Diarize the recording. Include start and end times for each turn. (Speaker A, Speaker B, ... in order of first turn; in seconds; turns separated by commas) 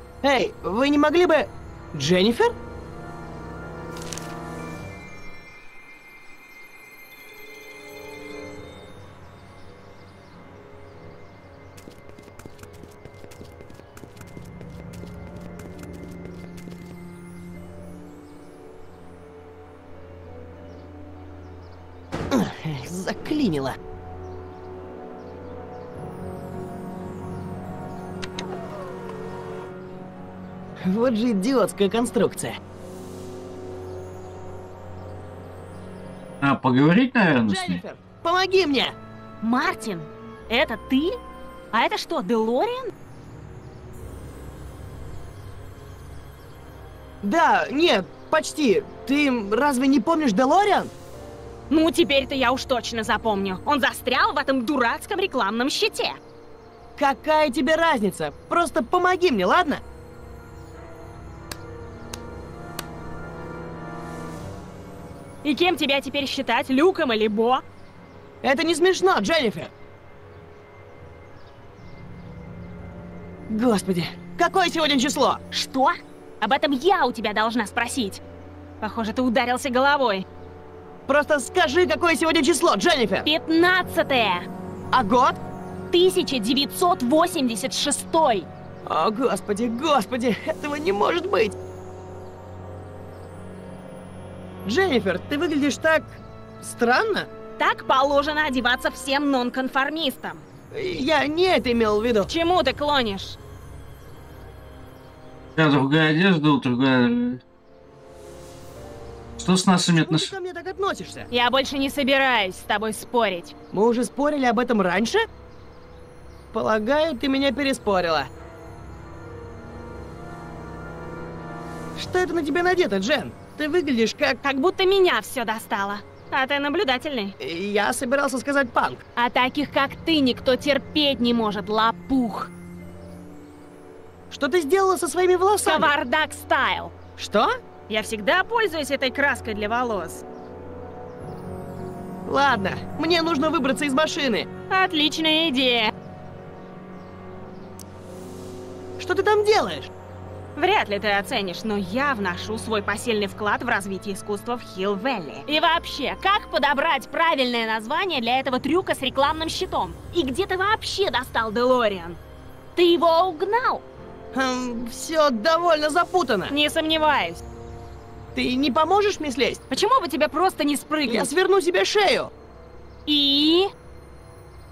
Speaker A: 0.2-2.5, Speaker A: 22.3-23.8, Speaker A: 30.8-32.5, Speaker B: 36.4-37.8, Speaker A: 37.5-39.0, Speaker C: 39.4-41.2, Speaker C: 41.7-42.9, Speaker A: 47.2-50.9, Speaker C: 51.7-56.2, Speaker A: 57.0-59.8, Speaker C: 65.4-67.6, Speaker A: 68.4-69.7, Speaker A: 73.5-75.4, Speaker C: 75.5-78.2, Speaker C: 78.8-80.3, Speaker A: 81.1-83.3, Speaker C: 83.2-84.5, Speaker A: 84.9-85.4, Speaker C: 85.9-88.5, Speaker A: 88.9-91.5, Speaker A: 94.7-97.3, Speaker C: 97.6-100.5, Speaker A: 100.7-102.3, Speaker C: 102.3-103.4, Speaker B: 105.6-107.4, Speaker B: 109.4-110.3, Speaker A: 109.9-111.3, Speaker C: 111.3-113.5, Speaker A: 113.7-115.2, Speaker A: 116.5-118.3, Speaker A: 122.0-124.4, Speaker C: 124.4-127.3, Speaker A: 127.4-129.0, Speaker C: 129.2-132.5, Speaker A: 134.3-135.9, Speaker C: 135.6-136.9, Speaker A: 137.2-137.5, Speaker C: 137.9-140.2, Speaker A: 142.3-144.5, Speaker C: 144.7-145.9, Speaker A: 149.0-149.9, Speaker C: 150.6-162.2, Speaker C: 162.8-163.8, Speaker A: 164.3-166.5, Speaker C: 166.5-167.4, Speaker A: 168.3-169.6, Speaker C: 169.7-171.3, Speaker A: 171.1-172.3, Speaker C: 173.1-173.7